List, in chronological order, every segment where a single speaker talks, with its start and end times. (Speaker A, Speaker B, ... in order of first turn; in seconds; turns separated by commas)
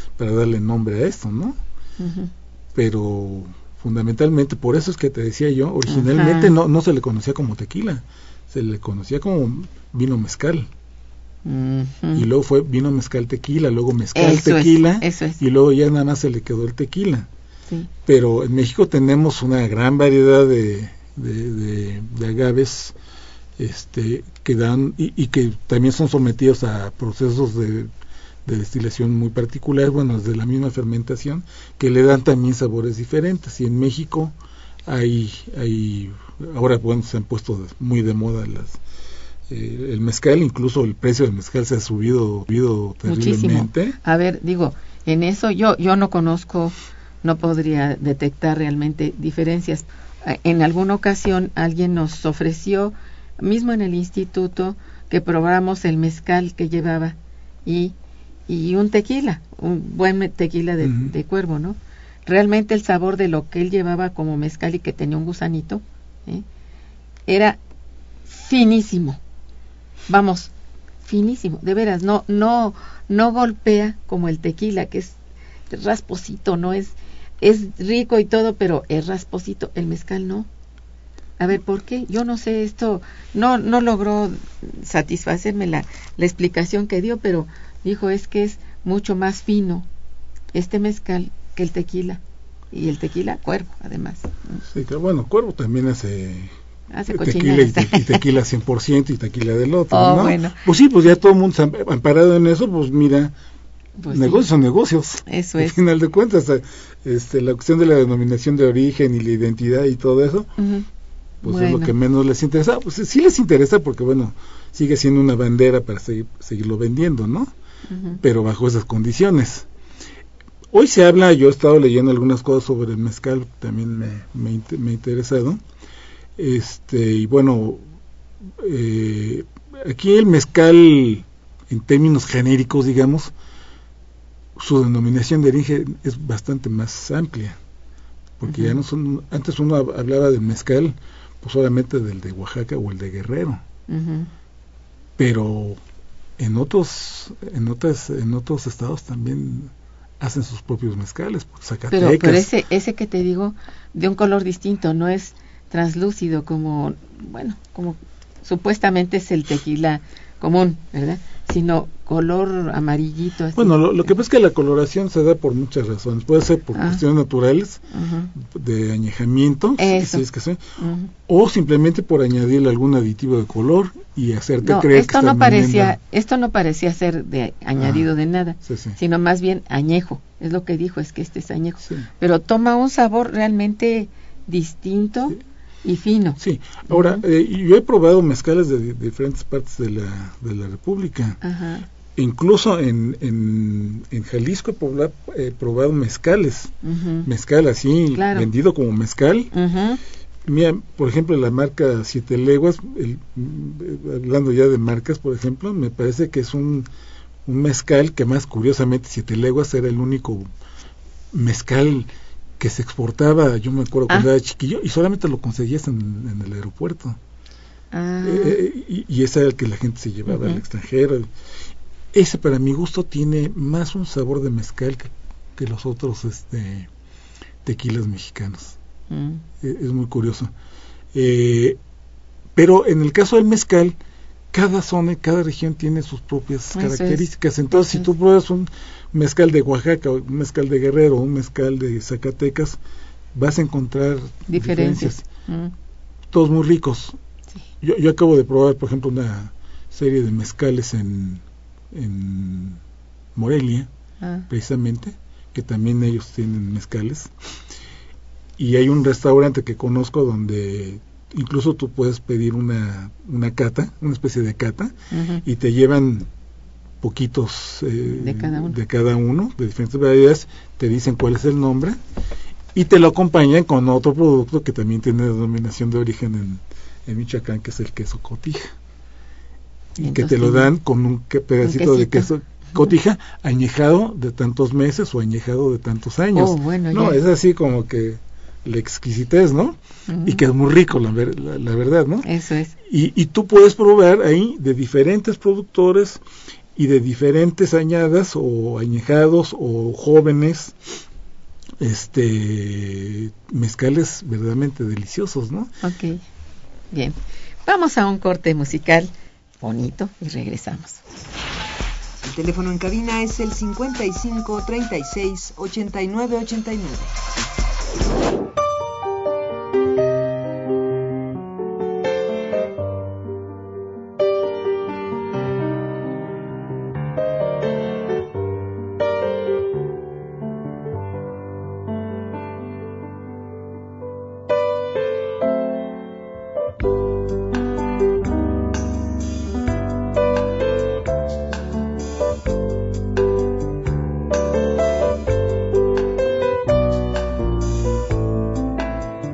Speaker A: 0.2-1.6, Speaker B: 2.0-2.3, Speaker A: 2.7-10.7, Speaker B: 5.9-6.5, Speaker B: 11.4-12.3, Speaker A: 12.1-17.3, Speaker B: 14.1-15.4, Speaker A: 18.0-22.9, Speaker A: 23.6-27.9, Speaker A: 28.4-34.3, Speaker A: 34.9-38.8, Speaker A: 39.5-44.0, Speaker B: 43.0-57.9, Speaker B: 58.5-66.4, Speaker A: 60.8-61.1, Speaker B: 67.3-67.6, Speaker B: 68.3-69.2, Speaker B: 70.1-70.5, Speaker B: 71.0-75.2, Speaker B: 75.7-80.5, Speaker B: 81.4-89.9, Speaker B: 90.5-92.2, Speaker B: 92.7-94.6, Speaker A: 94.6-96.5, Speaker B: 96.9-98.2, Speaker A: 97.1-103.3, Speaker B: 99.9-100.6, Speaker B: 104.0-104.4, Speaker A: 104.1-110.5, Speaker B: 105.2-105.8, Speaker B: 110.6-110.8, Speaker B: 111.4-111.9, Speaker A: 111.4-117.5, Speaker B: 117.9-118.2, Speaker A: 118.1-119.7, Speaker A: 120.7-125.6, Speaker A: 126.3-127.8, Speaker A: 128.6-133.3, Speaker A: 134.6-137.6, Speaker A: 138.4-143.6, Speaker B: 138.4-138.8, Speaker B: 143.9-144.3, Speaker A: 145.2-145.8, Speaker A: 146.4-152.5, Speaker B: 151.9-163.8, Speaker A: 163.5-170.6, Speaker B: 166.7-167.0, Speaker B: 167.9-168.3, Speaker B: 169.8-170.2, Speaker B: 170.8-171.1, Speaker A: 171.3-176.0, Speaker B: 174.6-187.2, Speaker A: 177.8-178.1, Speaker A: 178.6-179.0, Speaker A: 186.4-191.4, Speaker B: 191.4-191.8, Speaker A: 192.2-199.5, Speaker B: 196.8-197.3, Speaker B: 198.1-198.5, Speaker B: 199.5-200.0, Speaker A: 200.4-206.9, Speaker A: 207.4-210.5, Speaker A: 211.3-217.2, Speaker B: 217.9-218.6, Speaker A: 218.2-221.3, Speaker B: 220.3-220.6, Speaker A: 222.1-226.9, Speaker A: 227.6-228.8, Speaker B: 229.1-229.4, Speaker A: 229.6-230.5, Speaker A: 231.1-231.8, Speaker A: 232.6-234.0, Speaker A: 234.5-242.8, Speaker B: 236.7-238.1, Speaker A: 243.3-245.2, Speaker B: 244.5-245.7, Speaker A: 246.3-247.2, Speaker A: 247.8-252.8, Speaker A: 253.3-253.9, Speaker B: 254.2-254.5, Speaker A: 254.5-257.3, Speaker A: 258.6-266.3, Speaker B: 265.1-265.4, Speaker A: 267.0-272.0, Speaker B: 268.1-268.7, Speaker A: 272.7-278.7, Speaker A: 280.0-292.3, Speaker B: 280.0-280.7, Speaker B: 281.6-282.9, Speaker B: 286.3-287.2, Speaker B: 290.1-290.4, Speaker B: 292.2-292.7, Speaker A: 292.8-296.2, Speaker A: 296.7-300.7, Speaker A: 301.8-305.7, Speaker B: 305.8-306.2, Speaker B: 306.9-311.0, Speaker C: 312.2-317.1